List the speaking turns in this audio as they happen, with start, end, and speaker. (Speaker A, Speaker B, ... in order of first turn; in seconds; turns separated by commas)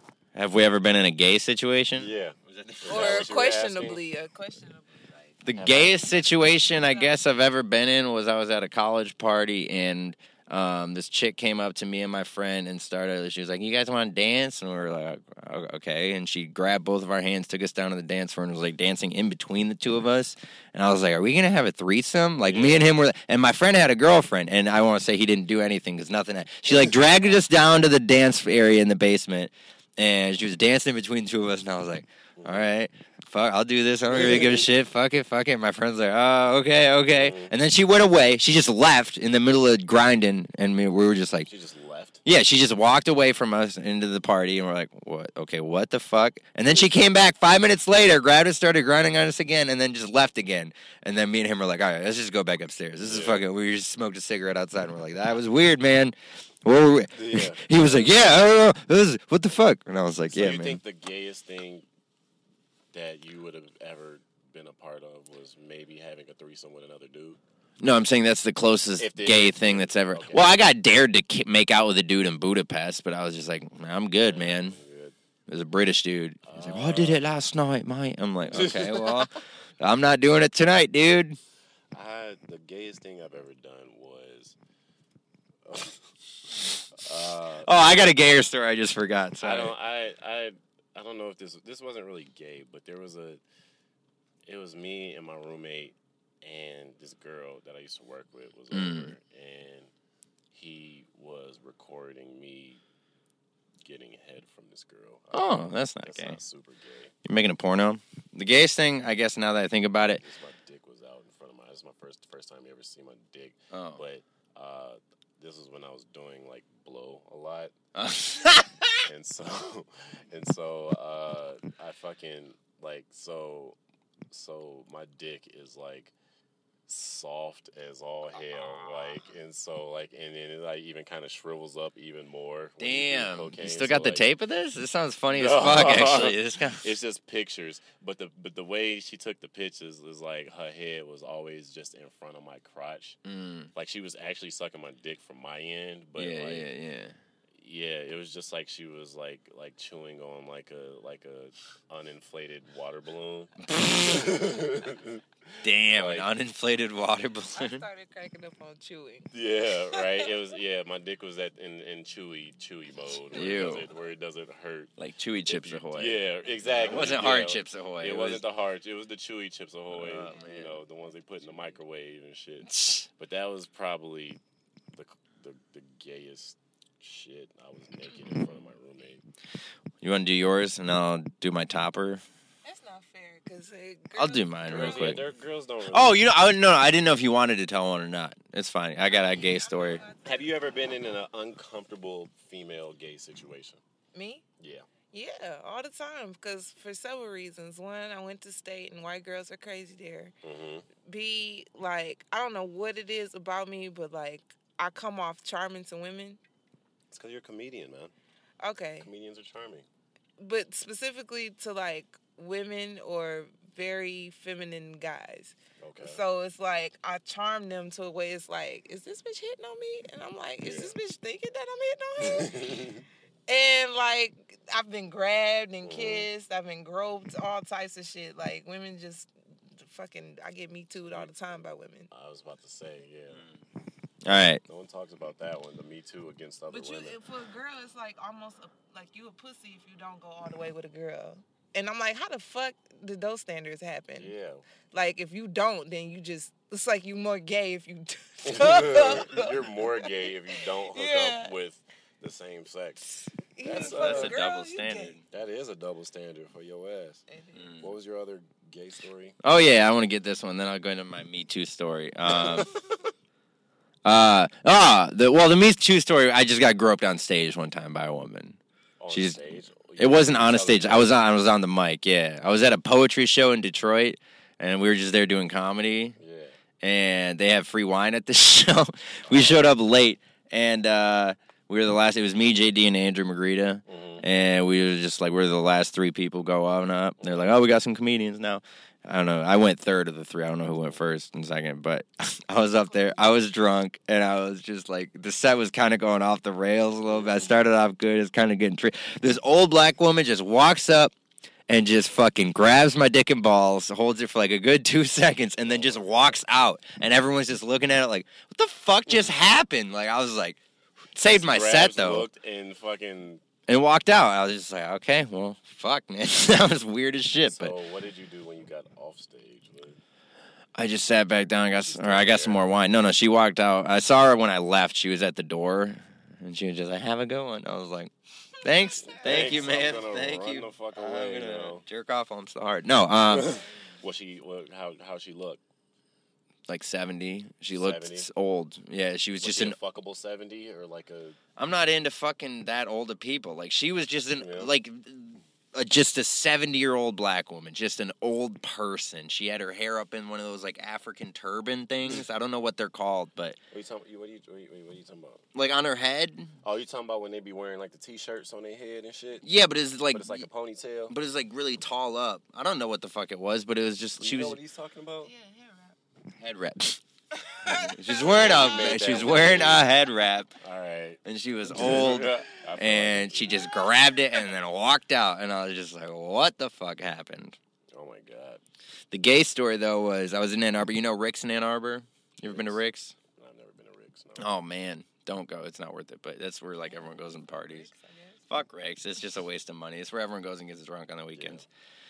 Speaker A: 0.3-3.3, Speaker B: 2.0-4.0, Speaker C: 2.9-7.2, Speaker A: 5.5-41.5, Speaker B: 22.4-22.9, Speaker B: 32.4-32.7, Speaker B: 34.1-34.7, Speaker B: 37.1-37.5, Speaker B: 41.5-42.2, Speaker A: 42.2-60.8, Speaker B: 53.0-53.4, Speaker B: 57.1-58.3, Speaker B: 60.3-61.9, Speaker B: 62.9-67.4, Speaker A: 67.8-74.8, Speaker B: 69.0-70.5, Speaker B: 74.2-75.2, Speaker A: 75.5-81.4, Speaker B: 76.4-77.2, Speaker B: 78.5-79.3, Speaker B: 81.9-84.6, Speaker B: 85.7-86.0, Speaker B: 87.0-88.1, Speaker A: 87.6-89.7, Speaker B: 89.4-93.4, Speaker B: 94.5-99.9, Speaker A: 98.7-99.1, Speaker B: 100.5-102.8, Speaker B: 103.8-107.1, Speaker A: 105.3-106.4, Speaker A: 107.2-110.2, Speaker B: 110.2-117.7, Speaker A: 113.7-114.0, Speaker A: 118.0-119.0, Speaker B: 119.1-123.8, Speaker B: 124.3-126.1, Speaker B: 126.9-134.2, Speaker A: 132.8-136.9, Speaker B: 135.3-143.2, Speaker A: 143.2-143.7, Speaker B: 143.8-146.7, Speaker A: 146.2-147.2, Speaker B: 147.6-155.2, Speaker A: 153.6-154.4, Speaker A: 155.6-157.8, Speaker B: 155.8-156.3, Speaker C: 157.6-159.3, Speaker B: 159.3-164.9, Speaker C: 159.9-160.3, Speaker A: 163.3-163.9, Speaker A: 165.0-166.2, Speaker B: 165.5-174.4, Speaker A: 166.7-168.4, Speaker A: 169.9-170.8, Speaker A: 172.7-173.1, Speaker B: 174.9-179.2, Speaker A: 180.0-182.2, Speaker C: 182.6-185.3, Speaker A: 184.2-185.2, Speaker B: 184.7-186.2, Speaker A: 185.9-190.0, Speaker C: 189.1-190.8, Speaker B: 190.2-193.8, Speaker C: 194.1-194.4, Speaker B: 194.6-194.9, Speaker C: 195.1-200.3, Speaker B: 200.4-200.9, Speaker C: 201.1-206.4, Speaker B: 207.1-208.1, Speaker C: 208.6-209.1, Speaker B: 209.0-209.9, Speaker C: 210.4-222.9, Speaker B: 215.8-216.2, Speaker B: 220.6-221.0, Speaker B: 222.2-223.0, Speaker C: 223.5-232.1, Speaker B: 225.8-226.3, Speaker B: 232.1-233.4, Speaker A: 234.2-234.6, Speaker B: 234.3-237.2, Speaker C: 236.7-244.3, Speaker B: 244.2-244.7, Speaker C: 244.9-251.5, Speaker B: 248.4-253.1, Speaker C: 253.5-255.1, Speaker B: 253.6-254.4, Speaker A: 253.8-255.2, Speaker B: 255.3-257.2, Speaker C: 257.3-257.7, Speaker A: 257.5-257.9, Speaker B: 257.8-259.4, Speaker A: 259.4-262.7, Speaker B: 262.3-262.7, Speaker A: 264.1-268.6, Speaker B: 269.0-271.1, Speaker A: 269.1-269.4, Speaker A: 270.0-276.2, Speaker B: 276.2-276.6, Speaker A: 276.8-301.1, Speaker B: 279.3-279.7, Speaker B: 283.9-284.2, Speaker B: 287.2-287.5, Speaker B: 297.1-297.6, Speaker A: 301.7-310.6, Speaker B: 305.6-306.4, Speaker A: 311.1-312.3, Speaker B: 311.3-313.4, Speaker A: 313.7-317.7, Speaker B: 317.4-320.0, Speaker A: 320.8-328.1, Speaker B: 321.8-322.6, Speaker A: 328.6-333.6, Speaker C: 328.7-329.5, Speaker B: 329.1-331.8, Speaker B: 333.3-335.6, Speaker C: 333.4-333.9, Speaker A: 336.7-339.8, Speaker B: 337.7-338.3, Speaker B: 339.4-341.4, Speaker A: 341.6-353.6, Speaker B: 344.4-344.7, Speaker B: 353.7-355.4, Speaker A: 355.5-356.5, Speaker B: 356.6-359.4, Speaker A: 359.4-360.5, Speaker B: 360.1-361.1, Speaker A: 361.1-364.6, Speaker B: 364.2-365.3, Speaker C: 365.2-366.0, Speaker A: 366.4-367.0, Speaker C: 367.4-369.2, Speaker A: 367.6-370.5, Speaker B: 368.1-369.9, Speaker B: 370.6-373.7, Speaker A: 371.2-377.6, Speaker B: 377.9-378.6, Speaker A: 379.1-383.1, Speaker B: 382.5-382.8, Speaker B: 383.3-384.5, Speaker A: 384.4-387.9, Speaker C: 386.9-388.5, Speaker A: 388.5-391.7, Speaker B: 391.3-391.6